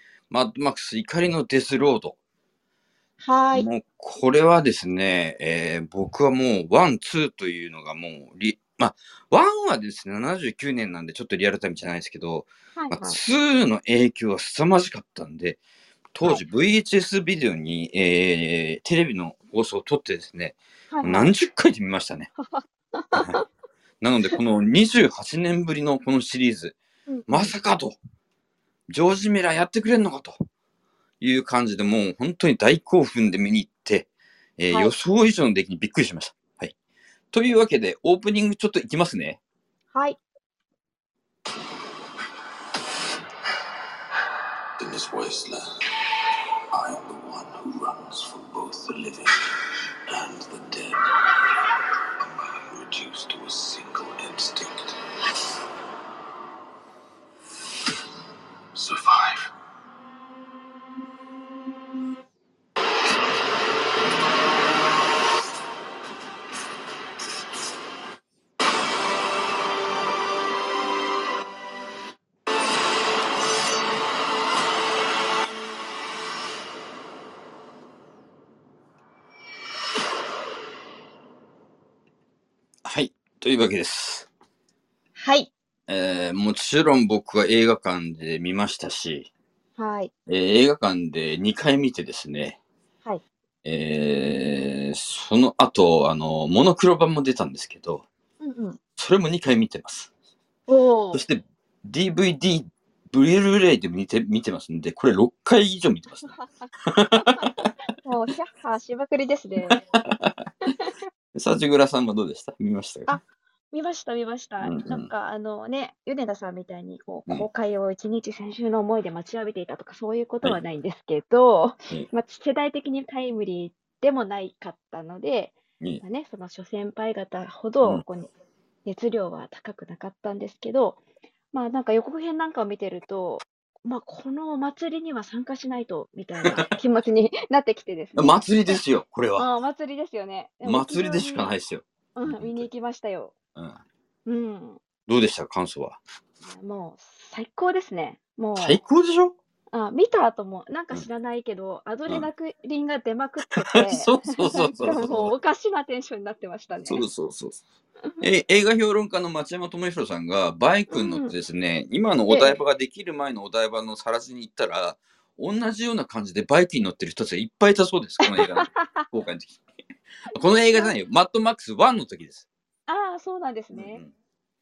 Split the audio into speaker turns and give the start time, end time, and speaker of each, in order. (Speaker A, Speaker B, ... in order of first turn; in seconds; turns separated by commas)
Speaker A: 0.3-2.2, Speaker B: 3.2-3.7, Speaker A: 3.5-15.6, Speaker B: 12.8-13.2, Speaker A: 16.1-22.3, Speaker B: 20.9-21.3, Speaker B: 22.4-23.4, Speaker A: 23.1-23.4, Speaker A: 24.0-26.8, Speaker B: 27.1-27.5, Speaker A: 27.3-28.0, Speaker A: 28.9-30.4, Speaker A: 31.2-36.7, Speaker A: 37.3-39.4, Speaker B: 39.9-40.2, Speaker C: 44.8-45.6, Speaker C: 46.7-49.3, Speaker C: 50.1-51.1, Speaker C: 52.2-54.9, Speaker C: 58.7-59.5, Speaker A: 82.8-84.3, Speaker B: 85.2-85.5, Speaker A: 85.9-89.3, Speaker B: 89.8-90.1, Speaker A: 90.3-92.6, Speaker A: 93.6-98.0, Speaker B: 98.4-98.8, Speaker A: 99.0-100.1, Speaker B: 100.7-101.2, Speaker A: 101.1-106.3, Speaker B: 106.3-106.7, Speaker A: 106.8-107.7, Speaker B: 108.0-109.8, Speaker A: 109.7-110.3, Speaker B: 110.6-110.9, Speaker A: 111.3-113.2, Speaker B: 113.1-128.3, Speaker A: 114.6-115.1, Speaker B: 128.8-131.0, Speaker B: 131.5-138.8, Speaker A: 138.2-139.5, Speaker B: 139.4-141.6, Speaker A: 140.6-142.6, Speaker B: 142.2-143.3, Speaker B: 144.2-144.8, Speaker A: 145.1-146.0, Speaker B: 146.4-148.8, Speaker A: 148.6-149.3, Speaker B: 149.7-157.0, Speaker A: 153.7-155.3, Speaker A: 156.9-157.6, Speaker A: 158.2-169.6, Speaker B: 160.9-161.3, Speaker B: 162.3-162.6, Speaker B: 168.2-169.1, Speaker A: 170.3-172.4, Speaker B: 172.9-174.0, Speaker A: 173.7-174.1